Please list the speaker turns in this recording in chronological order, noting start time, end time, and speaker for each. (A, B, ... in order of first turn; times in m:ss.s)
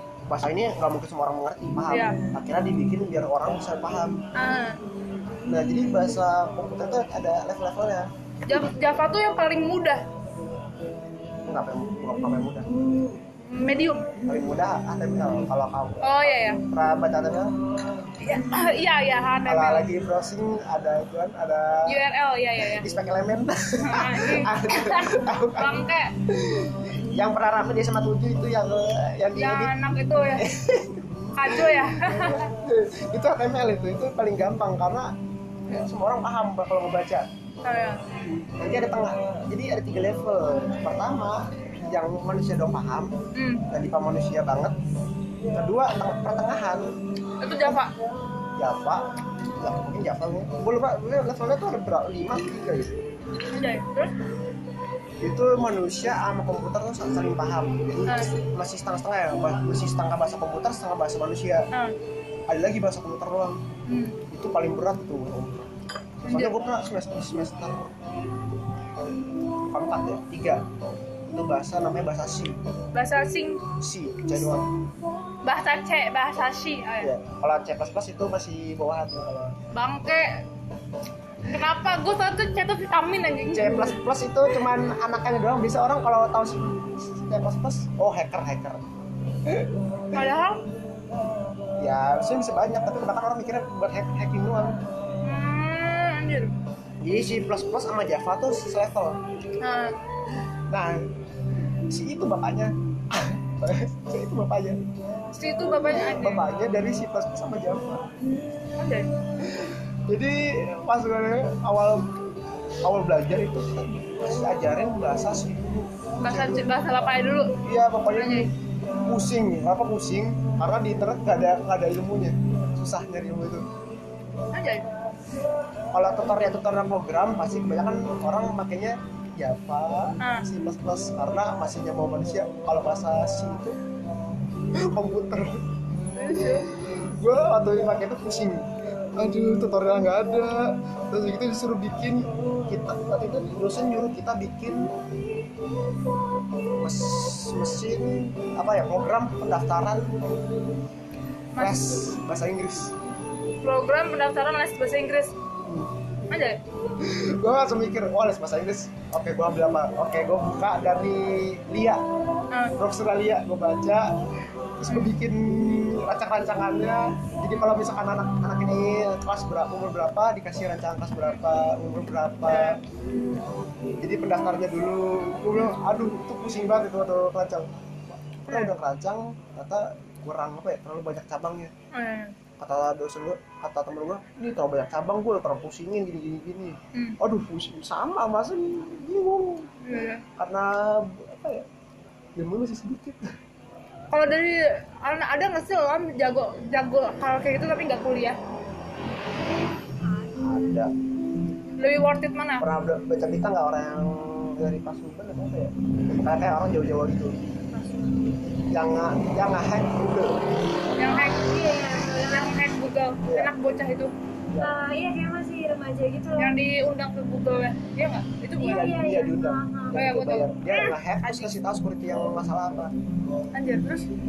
0:00.3-0:04.2 A
0:01.9-0:02.2 B
0:04.4-0:04.8 B
0:05.4-0:08.7 A
0:08.5-0:10.0 B
0:11.4-0:12.7 A
0:13.4-0:14.1 B
0:14.2-0:17.6 A
0:16.0-0:16.6 B
0:18.2-0:19.9 B
0:19.4-0:22.0 A
0:21.8-0:22.9 B
0:22.6-0:29.7 A
0:23.8-0:26.1 B
0:29.4-0:30.5 B
0:30.4-0:35.1 A
0:31.4-0:32.5 B
0:35.7-0:37.3 A
0:37.6-0:38.0 B
0:38.4-0:43.1 A
0:43.3-0:43.6 B
0:43.7-0:44.8 A
0:45.5-0:46.9 A
0:47.4-0:47.9 B
0:48.6-0:49.0 A
0:49.6-0:52.9 A
0:53.5-0:54.1 B
0:55.2-1:01.7 A
0:58.1-0:58.3 B
1:02.5-1:03.6 A
1:03.9-1:04.2 B
1:04.3-1:05.7 A
1:06.2-1:08.1 A
1:06.2-1:06.6 B
1:09.7-1:10.6 A
1:11.3-1:12.6 A
1:12.9-1:13.6 B
1:13.8-1:14.7 A
1:15.4-1:17.1 B
1:17.0-1:19.5 A
1:19.7-1:20.4 B
1:21.5-1:23.9 B
1:23.5-1:28.9 A
1:29.4-1:29.7 A
1:30.1-1:30.6 B
1:31.8-1:34.8 A
1:35.2-1:36.5 B
1:37.0-1:39.2 A
1:39.6-1:39.9 B
1:40.7-1:41.0 A
1:41.9-1:44.8 A
1:45.3-1:46.4 B
1:45.9-1:48.1 A
1:48.8-1:49.1 B
1:49.4-1:52.2 A
1:52.8-1:56.6 A
1:56.2-1:57.5 B
1:57.6-1:58.5 A
1:58.1-1:58.5 B
1:59.0-2:03.6 A
2:04.5-2:04.9 B
2:05.9-2:13.8 A
2:14.7-2:15.6 A
2:16.1-2:16.7 B
2:16.3-2:25.0 A
2:26.8-2:30.4 A
2:31.5-2:31.9 B
2:31.6-2:33.0 A
2:33.6-2:35.3 B
2:35.6-2:35.9 A
2:36.3-2:36.6 B
2:37.0-2:42.0 A
2:42.8-2:44.1 A
2:44.8-2:52.8 A
2:44.9-2:45.1 B
2:52.5-2:52.8 B
2:54.0-3:01.7 A
2:58.5-2:58.7 B
3:01.9-3:02.3 B
3:02.6-3:09.8 A
3:09.8-3:10.2 B
3:10.4-3:11.6 A
3:12.4-3:13.3 A
3:14.1-3:18.4 B
3:20.0-3:20.6 C
3:20.4-3:20.9 A
3:21.8-3:22.6 B
3:22.6-3:27.4 A
3:27.7-3:28.2 C
3:28.7-3:30.4 A
3:31.0-3:31.5 B
3:31.0-3:32.6 C
3:32.2-3:34.1 B
3:33.2-3:33.5 A
3:34.6-3:36.6 C
3:36.4-3:38.9 B
3:38.6-3:40.1 C
3:38.6-3:42.9 A
3:39.9-3:41.5 B
3:43.5-3:44.1 B